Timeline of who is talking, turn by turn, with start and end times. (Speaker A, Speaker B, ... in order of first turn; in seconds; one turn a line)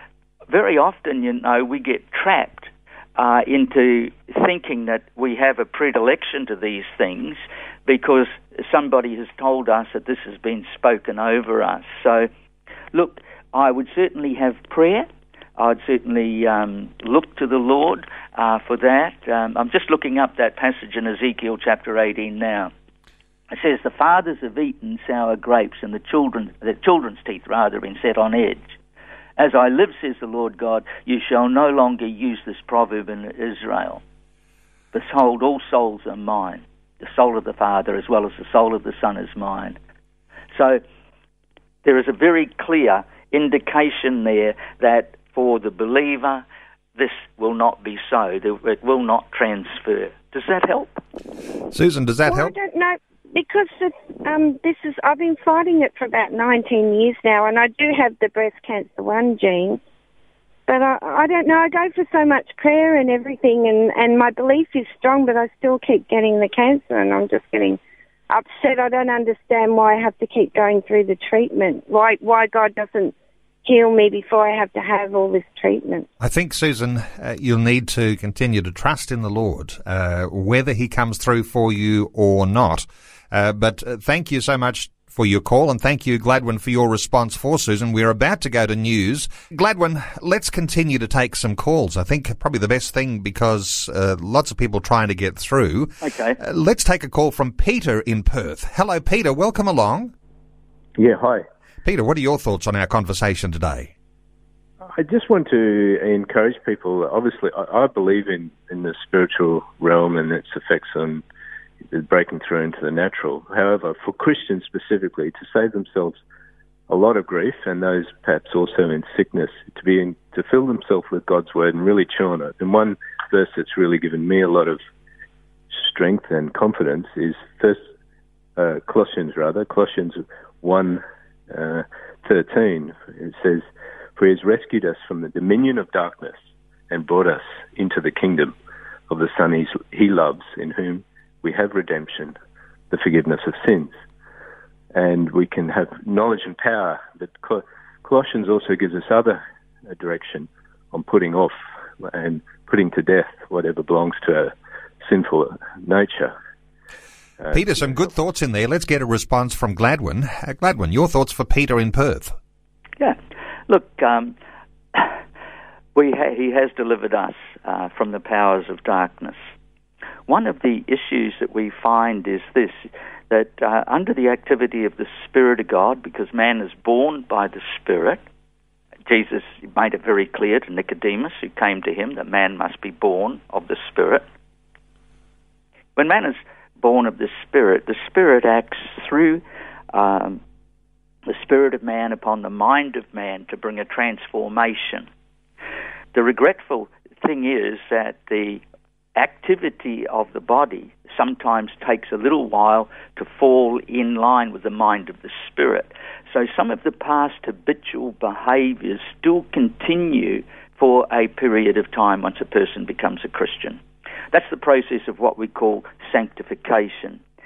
Speaker A: 0.5-12.3
Speaker A: 12.9-22.7
Speaker A: 23.5-28.8
Speaker A: 29.4-34.0
Speaker A: 34.9-39.8
Speaker A: 40.5-40.8
Speaker A: 41.8-46.4
Speaker A: 47.0-51.0
Speaker B: 51.7-52.5
Speaker C: 52.2-59.8
Speaker C: 60.7-67.8
Speaker C: 68.3-73.1
Speaker C: 73.6-76.1
Speaker B: 76.2-100.1
Speaker A: 96.0-96.4
Speaker D: 101.0-101.4
Speaker B: 101.8-103.9
Speaker D: 104.9-111.2
Speaker D: 111.9-116.2
Speaker D: 116.9-124.8
Speaker D: 125.8-127.8
Speaker D: 128.6-133.7
Speaker D: 134.2-136.4
Speaker D: 136.9-138.5
Speaker D: 139.1-142.4
Speaker D: 142.9-143.9
Speaker D: 144.9-156.3
Speaker D: 157.4-157.7
Speaker B: 157.5-162.3
Speaker A: 163.7-164.3
Speaker A: 165.9-169.4
Speaker A: 170.3-178.2
Speaker A: 179.1-184.2
Speaker A: 185.9-190.4
Speaker A: 191.2-195.1
Speaker A: 196.1-198.6
Speaker A: 199.2-217.2